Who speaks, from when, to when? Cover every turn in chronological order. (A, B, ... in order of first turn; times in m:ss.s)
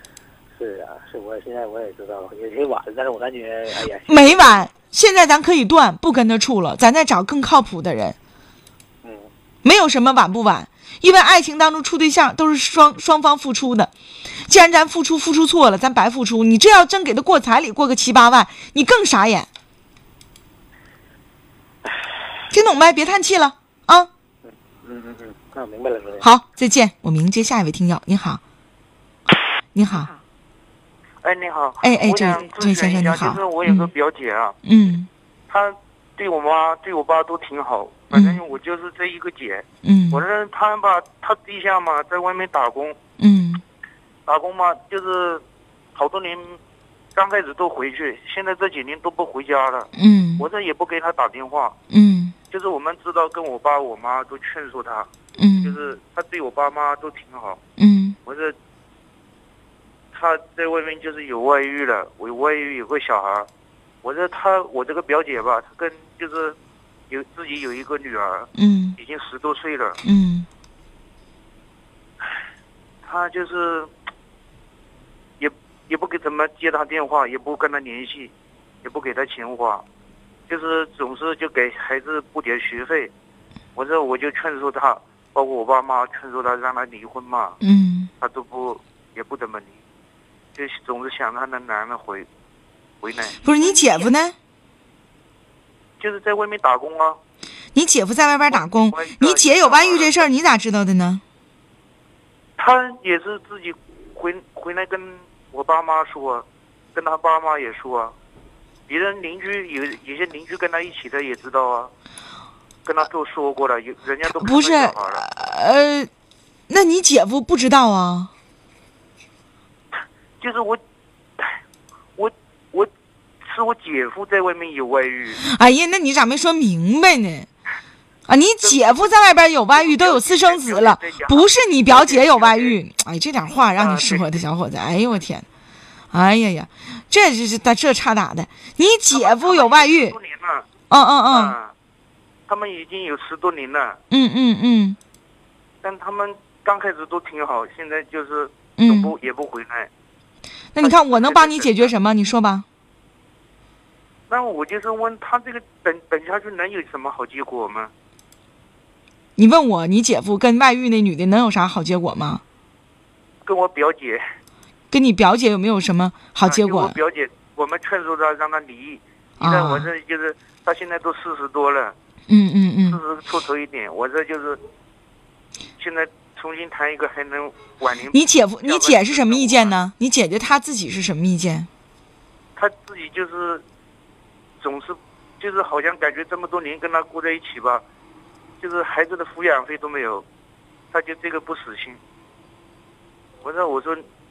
0:00.5-0:04.7 A
0:04.1-0:08.2 B
0:09.6-0:13.9 B
0:14.5-0:19.5 B
0:22.5-0:24.1 B
0:24.8-0:26.3 A
0:26.2-0:28.4 B
0:29.8-0:30.1 B
0:31.2-0:34.6 C
0:31.8-0:33.9 B
0:34.6-0:35.1 B
0:35.5-0:43.0 C
0:38.1-0:38.4 B
0:39.8-0:40.2 B
0:43.2-0:43.6 B
0:44.3-0:45.4 C
0:46.0-0:46.6 C
0:47.2-0:51.8 C
0:50.0-0:50.4 B
0:51.9-0:52.4 B
0:52.5-0:55.1 C
0:55.4-0:55.8 B
0:55.6-0:57.6 C
0:57.8-0:58.2 B
0:58.2-0:58.6 C
1:00.1-1:03.5 C
1:04.0-1:06.6 C
1:07.1-1:10.0 C
1:08.6-1:09.0 B
1:10.0-1:10.5 B
1:13.0-1:13.9 C
1:15.4-1:18.3 C
1:18.8-1:19.8 C
1:20.5-1:23.1 C
1:23.8-1:27.6 C
1:27.6-1:28.1 B
1:28.2-1:29.8 C
1:30.6-1:32.3 C
1:33.0-1:33.4 C
1:33.4-1:34.4 B
1:36.0-1:37.2 C
1:37.8-1:41.2 B
1:38.5-1:40.2 C
1:42.6-1:48.2 C
1:48.9-1:51.9 C
1:52.8-1:55.2 C
1:54.2-1:56.1 B
1:56.7-1:58.3 B
2:00.4-2:00.8 C
2:02.2-2:02.9 C
2:03.4-2:05.4 C
2:05.4-2:07.5 B
2:08.3-2:15.4 B
2:08.6-2:09.1 C
2:09.7-2:12.8 C
2:13.8-2:14.4 C
2:16.1-2:20.2 B
2:19.1-2:20.7 C
2:20.9-2:21.6 B
2:21.3-2:21.7 C
2:22.5-2:24.0 C
2:24.1-2:25.0 B
2:25.8-2:29.9 C
2:28.8-2:29.1 B
2:30.8-2:32.6 B
2:30.8-2:31.9 C
2:34.3-2:37.9 C
2:39.4-2:42.4 B
2:43.4-2:44.2 C
2:44.9-2:47.0 B
2:46.4-2:52.0 C
2:49.4-2:49.9 B
2:52.3-2:53.0 B
2:52.9-2:54.6 C
2:55.8-2:59.8 C
2:58.1-3:01.7 B
3:02.6-3:03.6 C
3:04.6-3:07.8 C
3:08.6-3:10.2 C
3:10.9-3:12.0 C
3:13.4-3:14.0 C